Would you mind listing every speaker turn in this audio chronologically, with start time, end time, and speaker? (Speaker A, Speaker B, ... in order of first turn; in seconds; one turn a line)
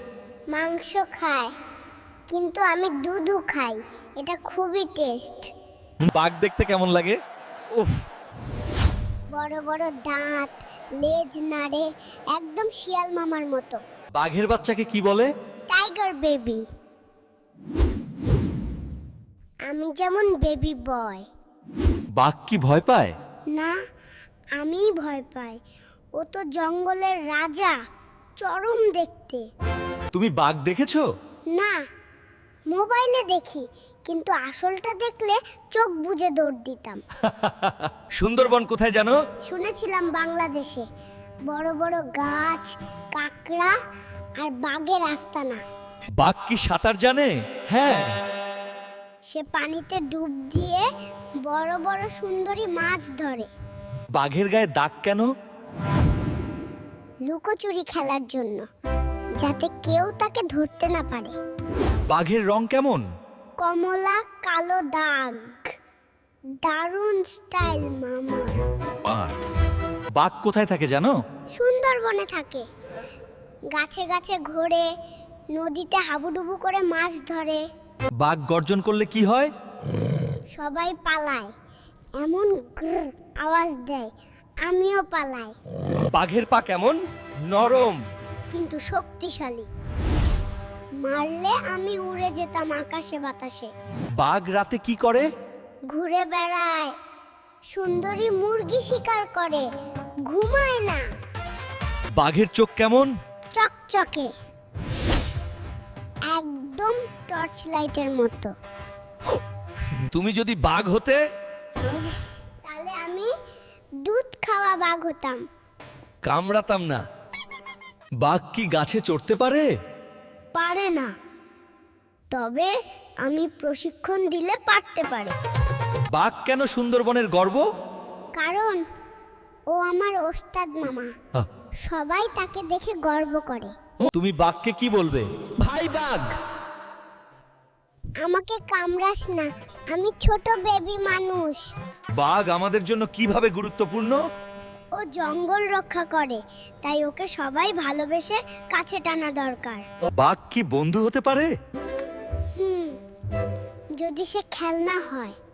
Speaker A: 0.5-1.5
Speaker A: 2.3-5.5
Speaker B: 6.1-7.2
Speaker A: 9.3-13.8
Speaker B: 14.2-15.3
Speaker A: 15.7-16.6
Speaker A: 19.7-21.2
Speaker B: 22.2-23.1
Speaker A: 24.6-25.6
Speaker A: 26.2-27.8
Speaker A: 28.4-29.4
Speaker B: 30.1-31.0
Speaker A: 31.5-31.8
Speaker A: 32.7-37.0
Speaker B: 37.3-39.2
Speaker A: 39.5-40.9
Speaker A: 41.5-43.7
Speaker A: 44.4-45.6
Speaker B: 46.2-48.1
Speaker A: 49.3-50.9
Speaker A: 51.5-53.5
Speaker B: 54.1-55.3
Speaker A: 57.3-58.6
Speaker A: 59.4-61.3
Speaker B: 62.1-63.0
Speaker A: 63.6-65.7
Speaker A: 66.6-68.6
Speaker B: 69.0-69.3
Speaker B: 70.2-71.1
Speaker A: 71.5-72.7
Speaker A: 73.7-74.9
Speaker A: 75.5-77.6
Speaker B: 78.2-79.5
Speaker A: 80.6-81.5
Speaker A: 82.2-84.1
Speaker A: 84.7-85.5
Speaker B: 86.1-88.0
Speaker A: 88.5-89.7
Speaker A: 91.0-93.7
Speaker B: 94.2-95.3
Speaker A: 95.9-96.9
Speaker A: 97.7-99.7
Speaker A: 100.3-101.0
Speaker B: 102.2-103.1
Speaker A: 103.5-104.3
Speaker A: 106.3-108.5
Speaker B: 110.1-111.2
Speaker A: 112.6-113.3
Speaker A: 114.0-115.4
Speaker B: 116.2-117.0
Speaker B: 118.2-119.7
Speaker A: 120.5-121.1
Speaker A: 122.3-122.7
Speaker A: 123.2-125.3
Speaker B: 126.1-127.6
Speaker A: 128.4-128.8
Speaker A: 129.7-131.1
Speaker A: 131.8-133.7
Speaker B: 134.0-136.3
Speaker A: 138.2-141.7
Speaker B: 142.2-144.2
Speaker A: 145.0-149.8
Speaker B: 150.2-151.5
Speaker A: 152.6-153.0
Speaker A: 154.0-155.3